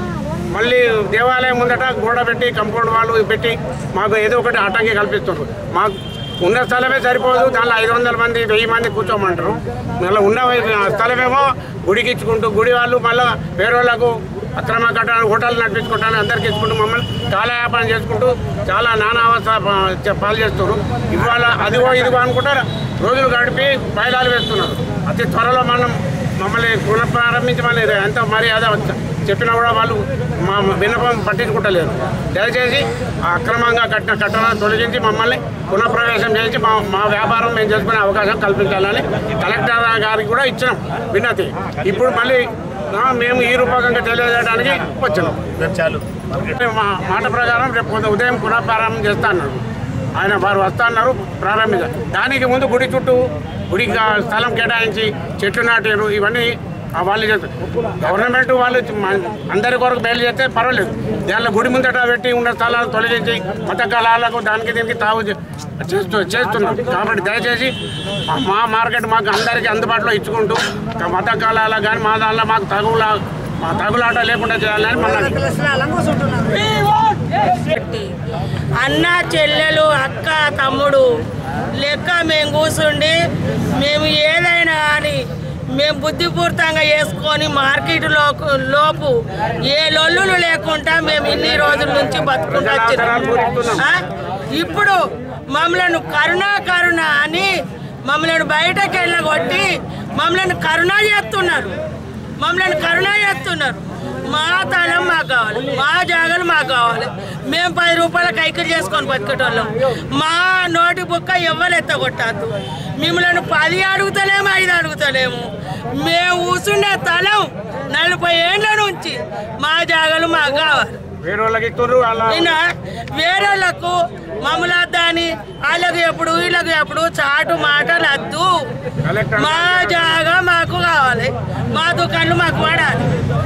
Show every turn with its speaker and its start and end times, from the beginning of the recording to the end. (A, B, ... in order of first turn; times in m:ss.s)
0:00.5-0:49.6 A
0:50.2-1:07.7 A
1:08.3-1:15.5 A
1:15.4-1:16.9 B
1:17.5-1:18.1 B
1:18.8-1:21.1 B
1:21.8-1:23.2 B
1:23.8-1:34.0 B
1:32.5-1:33.8 A
1:34.5-1:35.0 B
1:35.5-1:37.5 B
1:38.0-1:41.8 B
1:42.4-2:01.0 B
2:01.2-2:02.6 A
2:02.3-2:08.7 B
2:09.0-2:10.2 A
2:09.4-2:13.1 B